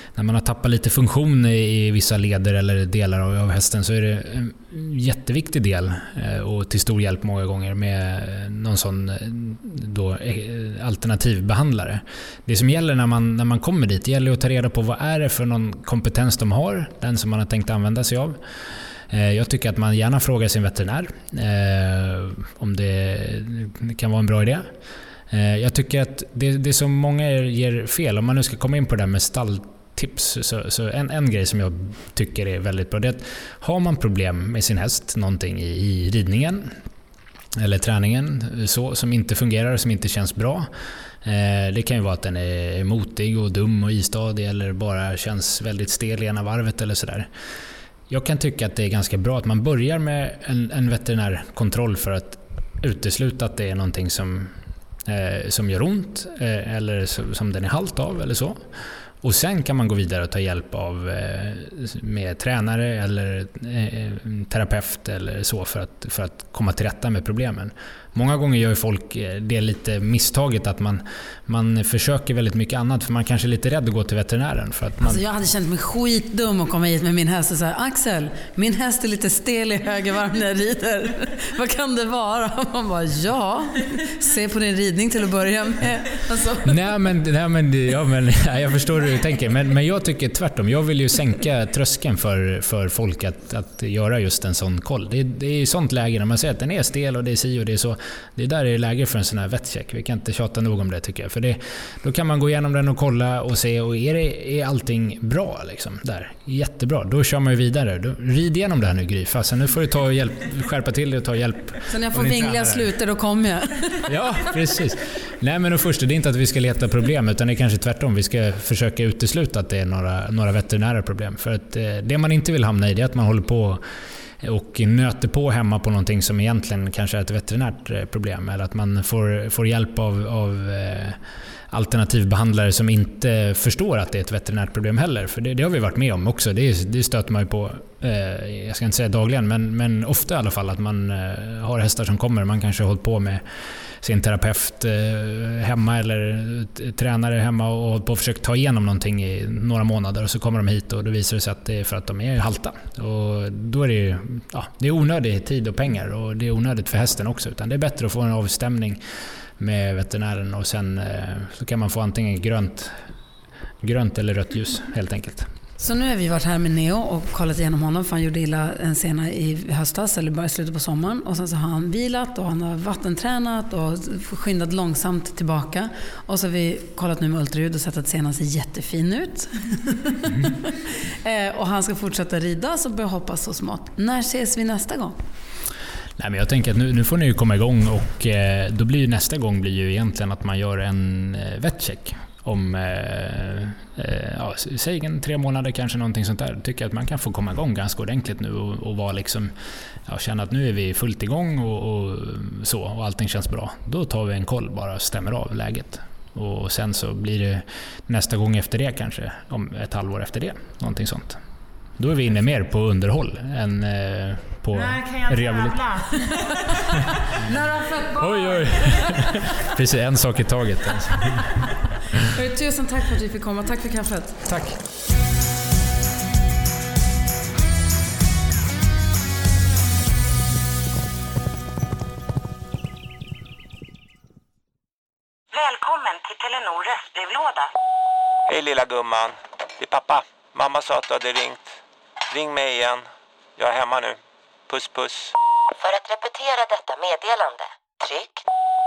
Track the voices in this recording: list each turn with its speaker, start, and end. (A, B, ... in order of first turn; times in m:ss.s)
0:00.1-0:18.4 A
0:19.1-0:24.7 A
0:25.3-0:36.7 A
0:37.6-0:40.7 A
0:41.2-0:47.3 A
0:48.1-0:54.5 A
0:55.0-0:58.6 A
0:59.2-1:15.2 A
1:15.0-1:26.8 B
1:26.6-1:52.9 A
1:51.9-1:54.0 B
1:54.0-2:03.8 A
2:04.4-2:11.2 A
2:11.7-2:23.4 A
2:24.0-2:39.0 A
2:39.6-2:43.0 A
2:43.8-2:45.5 A
2:45.8-3:05.2 B
3:06.2-3:19.5 A
3:20.0-3:31.4 A
3:32.0-3:35.9 A
3:35.0-3:35.2 B
3:35.7-3:36.7 B
3:37.4-3:39.3 B
3:38.2-3:41.5 A
3:42.3-3:44.4 B
3:44.5-3:44.8 A
3:55.5-3:57.7 C
3:58.5-4:01.7 D
4:02.3-4:03.0 D
4:03.6-4:04.2 D
4:04.7-4:05.3 D
4:05.8-4:08.4 E